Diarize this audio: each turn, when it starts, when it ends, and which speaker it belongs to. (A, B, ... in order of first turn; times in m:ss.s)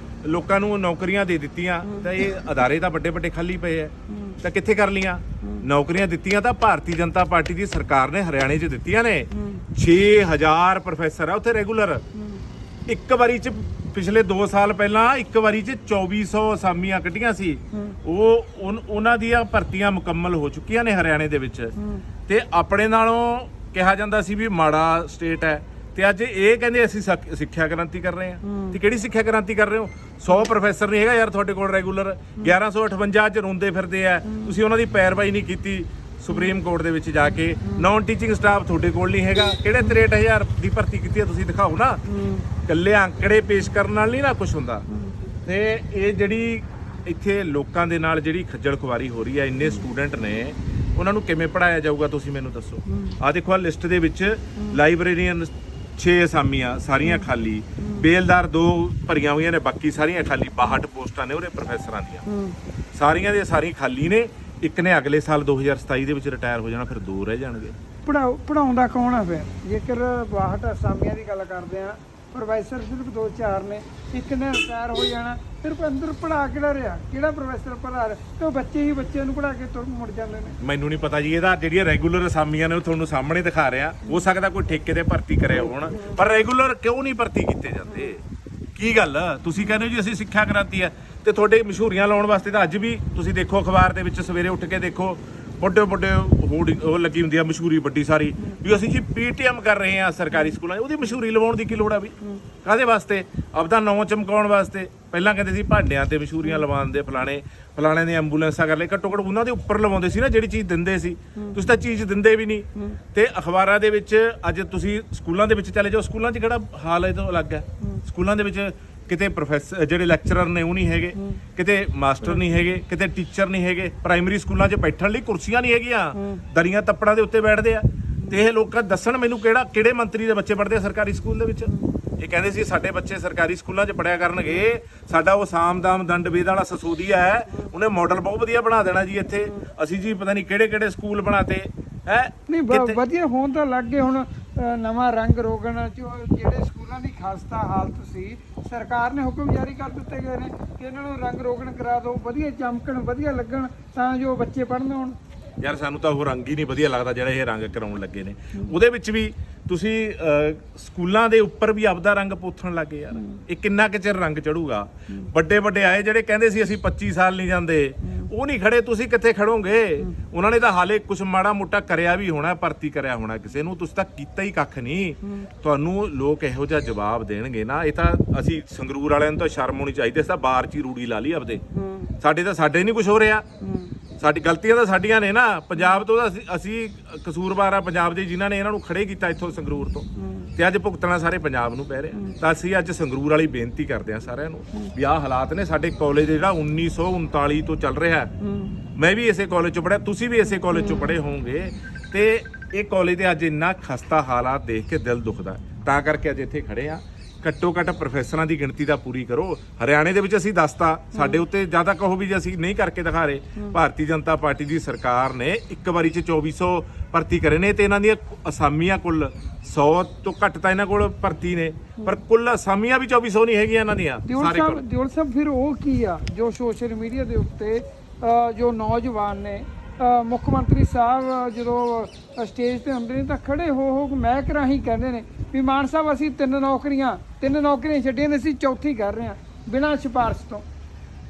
0:00.2-0:12.0 A
0:12.9-0:21.7 A
0:22.3-0:42.0 A
0:28.4-0:28.7 B
0:42.2-0:42.4 B
0:42.6-0:44.9 A
0:45.4-1:02.2 A
1:02.3-1:02.6 B
1:02.9-1:07.8 A
1:08.0-1:20.6 B
1:20.6-1:28.2 A
1:28.8-2:23.0 A
2:06.2-2:06.4 B
2:22.5-2:35.2 B
2:35.6-3:01.6 A
3:01.7-3:02.1 B
3:02.2-3:03.5 A
3:03.6-3:03.9 B
3:04.2-3:18.3 A
3:18.4-3:18.8 B
3:19.0-3:44.8 A
3:31.1-3:31.4 B
3:44.2-4:00.6 B